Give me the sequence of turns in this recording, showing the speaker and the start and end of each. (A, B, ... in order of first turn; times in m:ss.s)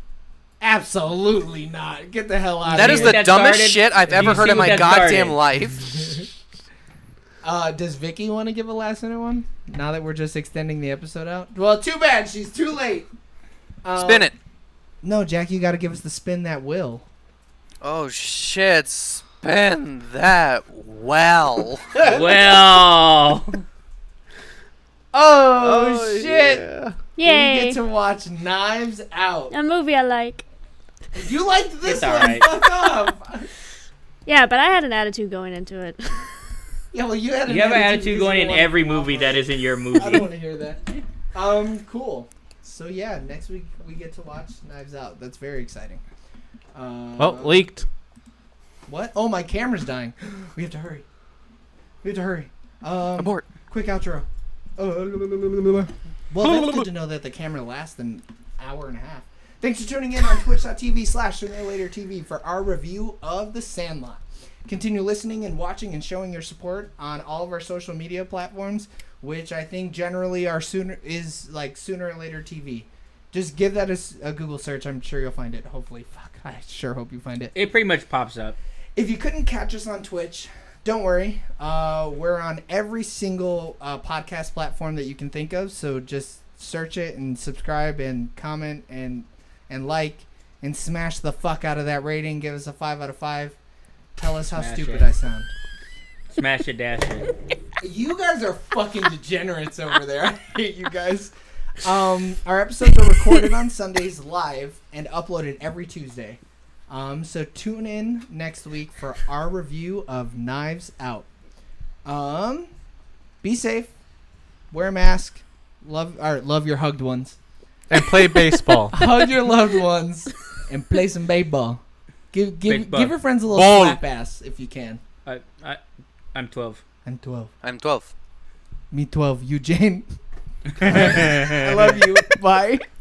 0:00.6-0:03.2 A
0:02.6-0:05.4 B
0:02.7-0:05.8 C
0:05.8-0:06.3 A
0:07.4-0:13.1 A
0:13.8-0:14.4 A
0:14.0-0:14.3 C
0:15.0-0:17.0 A
0:17.8-0:21.9 C
0:22.0-0:23.6 B
0:25.1-0:26.6 A
0:25.6-0:27.0 D
0:27.2-0:27.8 E
0:27.2-0:29.5 A
0:29.5-0:30.5 E
0:31.1-0:33.5 A
0:31.8-0:32.5 B
0:34.3-0:36.3 E
0:36.9-0:40.8 A
0:37.5-0:40.3 B
0:41.3-0:46.0 A
0:46.7-0:47.6 A
0:47.2-0:47.8 D
0:48.9-0:51.0 A
0:52.0-1:17.5 A
0:53.2-0:53.5 C
0:56.4-0:56.8 D
1:17.5-1:18.6 B
1:19.0-1:33.6 A
1:34.2-1:35.5 A
1:34.6-1:35.1 B
1:36.4-1:37.3 B
1:37.8-1:51.3 A
1:52.0-1:52.7 A
1:53.4-1:53.9 A
1:54.7-1:57.4 A
1:57.9-1:59.0 D
1:58.9-2:05.0 A
2:02.7-2:03.2 B
2:03.5-2:04.0 C
2:05.2-2:05.8 B
2:06.3-2:06.8 B
2:07.0-2:07.5 A
2:07.6-2:08.1 C
2:08.9-2:10.1 A
2:10.8-2:11.9 B
2:10.8-2:12.9 A